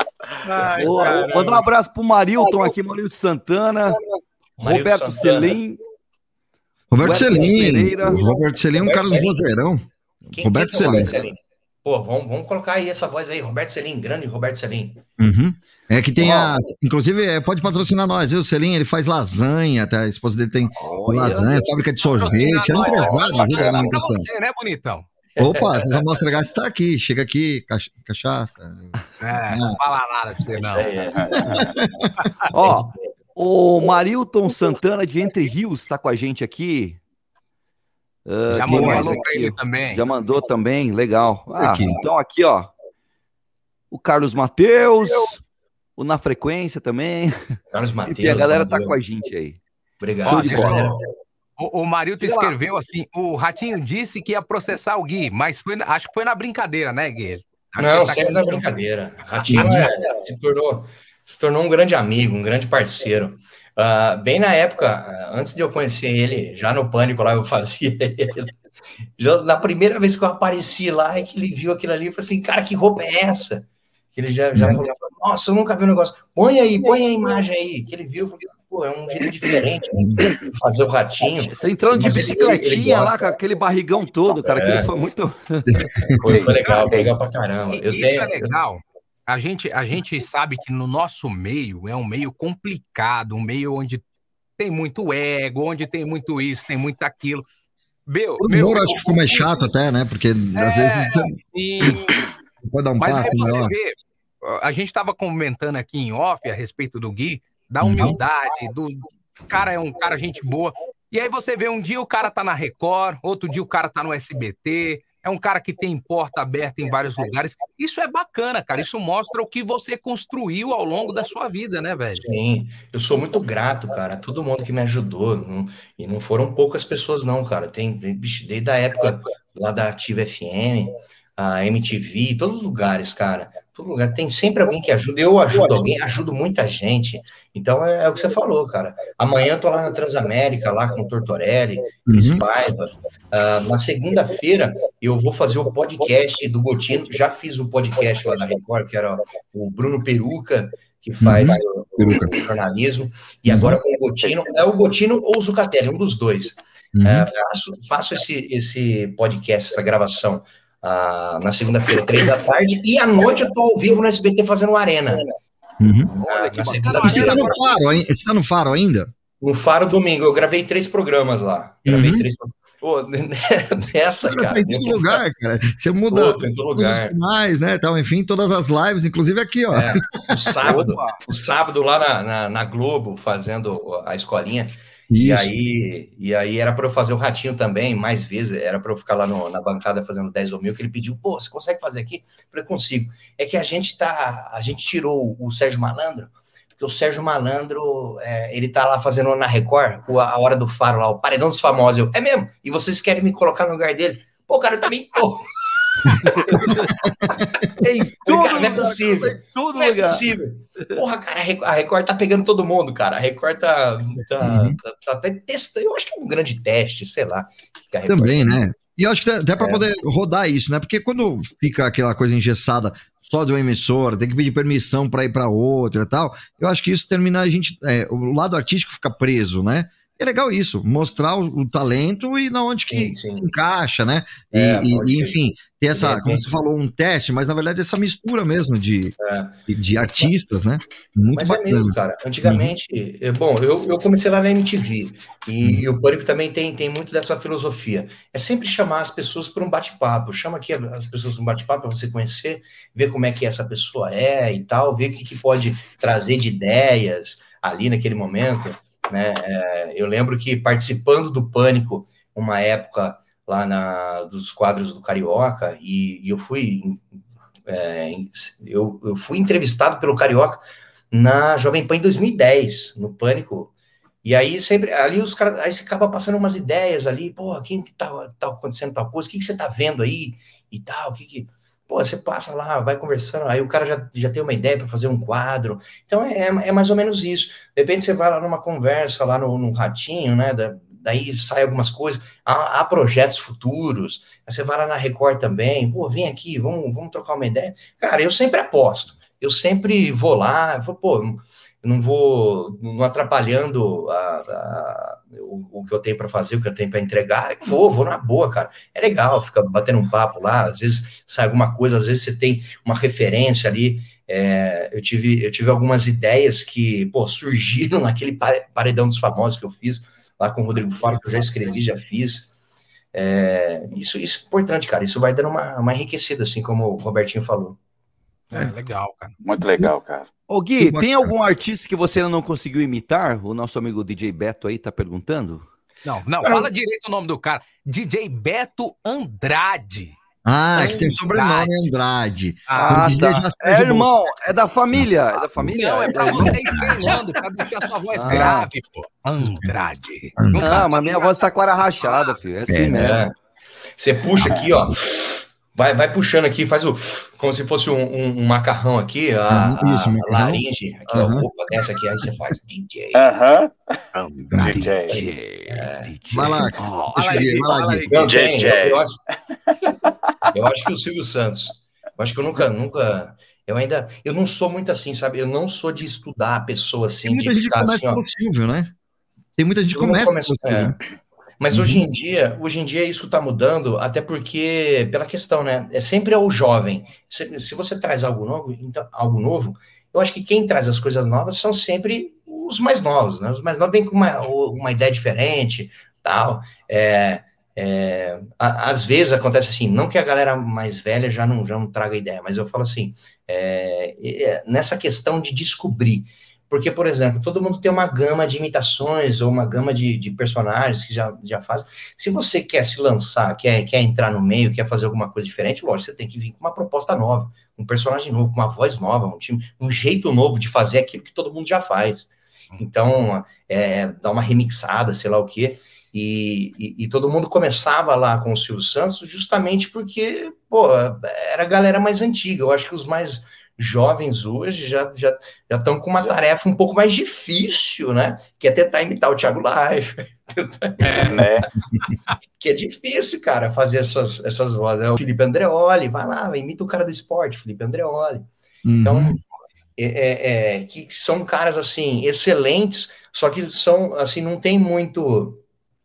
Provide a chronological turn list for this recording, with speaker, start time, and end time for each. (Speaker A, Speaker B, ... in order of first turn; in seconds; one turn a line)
Speaker A: 0.4-1.6
Speaker B: 0.6-4.0
Speaker C: 4.6-5.6
Speaker B: 4.6-5.8
Speaker D: 6.9-11.2
Speaker B: 7.0-8.2
Speaker C: 8.7-9.4
Speaker C: 10.3-15.0
Speaker D: 15.2-24.3
Speaker C: 16.2-16.5
Speaker B: 20.8-21.7
Speaker A: 22.2-25.1
Speaker E: 22.8-23.1
Speaker D: 25.4-29.0
Speaker C: 25.4-25.8
Speaker A: 29.2-30.9
Speaker D: 29.5-29.8
Speaker C: 30.6-31.2
Speaker E: 31.1-31.7
Speaker D: 31.5-32.1
Speaker A: 32.2-32.5
Speaker B: 32.5-37.0
Speaker C: 32.6-33.1
Speaker B: 38.3-42.7
Speaker A: 38.5-40.0
Speaker D: 38.6-39.1
Speaker D: 41.6-42.0
Speaker B: 43.9-45.4
Speaker B: 46.0-49.6
Speaker C: 47.7-49.0
Speaker C: 50.0-51.0
Speaker B: 50.2-51.0
Speaker A: 50.3-51.0
Speaker A: 51.6-58.8
Speaker C: 57.8-68.5
Speaker A: 59.4-59.9
Speaker C: 69.2-83.3
Speaker B: 81.6-86.5
Speaker C: 84.5-84.9
Speaker D: 85.7-86.2
Speaker C: 86.2-88.5
Speaker E: 86.3-87.1
Speaker A: 86.6-86.9
Speaker A: 87.7-94.0
Speaker A: 94.6-97.5
Speaker A: 98.1-99.7
Speaker D: 98.4-102.0
Speaker A: 100.5-102.3
Speaker D: 102.6-103.8
Speaker A: 103.0-122.2
Speaker D: 107.8-108.2
Speaker C: 122.2-165.3
Speaker D: 142.1-142.4
Speaker D: 151.2-152.3
Speaker D: 153.4-153.8
Speaker D: 156.9-157.3
Speaker D: 165.8-166.1
Speaker C: 166.1-167.5
Speaker A: 166.3-167.9
Speaker D: 166.9-169.1
Speaker C: 169.4-175.2
Speaker D: 171.8-172.3
Speaker D: 174.2-180.1
Speaker C: 176.1-177.2
Speaker C: 179.7-205.5
Speaker B: 180.6-181.3
Speaker D: 185.1-185.5
Speaker C: 206.1-206.9
Speaker B: 206.4-206.9
Speaker C: 207.8-218.6
Speaker B: 208.2-210.3
Speaker D: 214.4-214.8
Speaker D: 218.1-242.7
Speaker C: 219.6-219.9
Speaker C: 232.9-233.5
Speaker C: 234.5-236.6
Speaker C: 239.2-239.7
Speaker C: 241.3-267.1
Speaker C: 267.6-273.7
Speaker C: 274.2-322.5
Speaker C: 323.1-327.8
Speaker A: 328.5-329.4
Speaker E: 329.4-330.3
Speaker B: 330.5-335.6
Speaker D: 330.8-331.3
Speaker A: 336.0-340.1
Speaker C: 336.4-336.7
Speaker D: 340.4-344.1
Speaker B: 340.9-341.1
Speaker A: 341.0-341.9
Speaker A: 342.7-343.4
Speaker B: 342.8-346.9
Speaker D: 344.9-346.9
Speaker A: 345.7-352.4
Speaker B: 348.1-348.7
Speaker D: 349.4-349.7
Speaker D: 350.4-350.9
Speaker B: 350.6-353.3
Speaker C: 352.7-353.3
Speaker C: 354.0-363.3
Speaker D: 359.5-361.5
Speaker E: 363.1-363.7
Speaker D: 364.5-364.8
Speaker E: 364.6-365.1
Speaker B: 364.6-367.4
Speaker C: 365.1-366.1
Speaker D: 366.3-368.2
Speaker A: 367.1-368.3
Speaker C: 368.1-369.2
Speaker E: 368.2-369.1
Speaker C: 370.5-378.2
Speaker D: 377.3-378.9
Speaker D: 379.6-381.0
Speaker C: 379.9-381.0
Speaker C: 381.6-441.5
Speaker D: 381.7-382.0
Speaker A: 441.1-441.4
Speaker E: 441.1-441.7
Speaker C: 442.6-448.5
Speaker D: 448.9-449.4
Speaker C: 449.0-449.4
Speaker C: 450.0-455.6